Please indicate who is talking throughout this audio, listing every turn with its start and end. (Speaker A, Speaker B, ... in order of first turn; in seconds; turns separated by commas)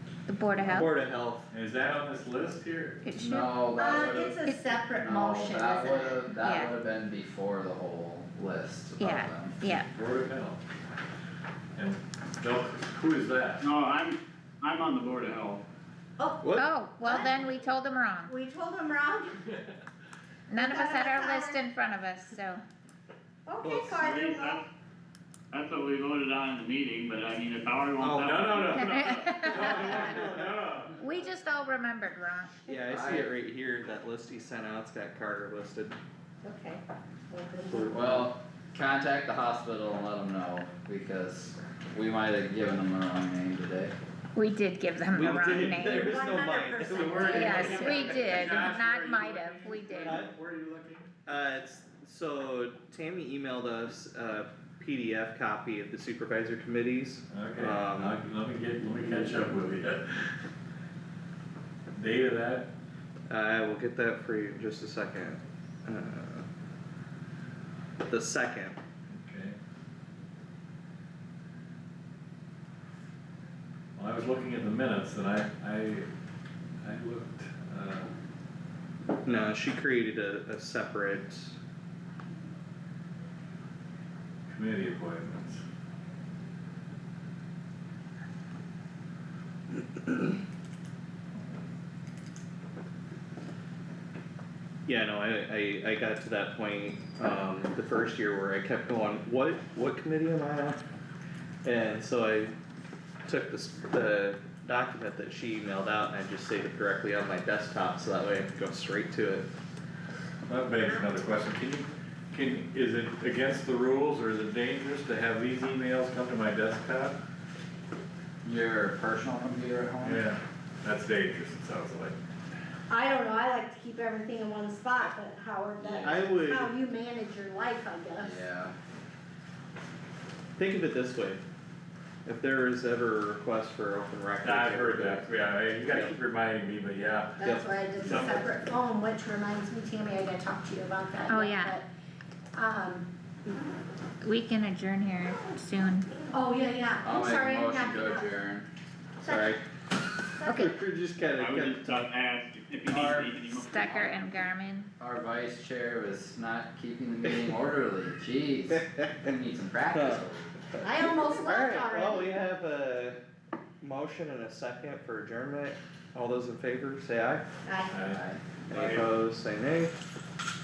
Speaker A: 0.3-0.9, Speaker B: 0.6-1.5, Speaker C: 1.5-3.0, Speaker A: 3.0-3.5, Speaker D: 3.1-4.4, Speaker E: 3.8-6.3, Speaker A: 4.5-4.8, Speaker D: 5.0-9.6, Speaker A: 6.3-6.7, Speaker A: 9.0-9.9, Speaker C: 9.7-10.6, Speaker C: 11.8-13.6, Speaker F: 13.6-15.6, Speaker E: 16.2-17.6, Speaker B: 16.4-16.6, Speaker A: 16.5-18.3, Speaker E: 18.2-19.4, Speaker A: 20.5-22.6, Speaker E: 20.5-21.6, Speaker E: 23.4-24.6, Speaker B: 23.6-24.0, Speaker F: 23.9-24.6, Speaker F: 25.5-29.1, Speaker B: 28.0-28.4, Speaker C: 28.1-31.0, Speaker A: 28.7-30.1, Speaker B: 29.7-30.5, Speaker A: 31.0-32.6, Speaker B: 32.7-36.0, Speaker D: 32.9-33.3, Speaker E: 36.4-37.9, Speaker B: 37.7-38.3, Speaker D: 37.9-43.9, Speaker A: 44.4-46.4, Speaker B: 45.1-48.2, Speaker E: 45.6-48.4, Speaker C: 46.9-51.1, Speaker A: 47.2-50.2, Speaker B: 50.0-50.3, Speaker B: 51.2-58.2, Speaker C: 57.3-60.2, Speaker C: 61.9-62.7, Speaker B: 63.3-66.5, Speaker B: 68.1-68.8, Speaker C: 69.1-69.6, Speaker C: 74.0-76.1, Speaker C: 76.8-78.1, Speaker B: 79.2-81.5, Speaker C: 84.5-85.6, Speaker B: 94.8-100.8, Speaker B: 101.6-102.5, Speaker B: 103.2-109.5, Speaker C: 110.5-117.2, Speaker D: 118.4-120.2, Speaker C: 120.0-122.2, Speaker E: 122.9-128.4, Speaker D: 125.8-126.2, Speaker B: 126.0-126.7, Speaker D: 128.2-128.7, Speaker B: 130.6-131.4, Speaker B: 132.2-136.2, Speaker C: 134.4-138.5, Speaker E: 137.4-141.9, Speaker B: 137.4-138.3, Speaker A: 141.3-141.8, Speaker E: 142.5-143.5, Speaker A: 144.2-146.1, Speaker E: 146.3-148.3, Speaker D: 147.0-148.7, Speaker E: 149.2-149.6, Speaker B: 149.2-149.6, Speaker A: 150.4-150.7, Speaker B: 150.4-152.1, Speaker F: 151.3-154.3, Speaker B: 152.9-153.3, Speaker A: 153.5-154.9, Speaker D: 155.0-160.5, Speaker B: 158.7-159.3, Speaker B: 159.9-163.2, Speaker E: 160.8-162.4, Speaker B: 163.8-167.4, Speaker E: 167.6-167.9, Speaker C: 167.9-169.1, Speaker D: 168.1-168.4, Speaker B: 168.7-169.9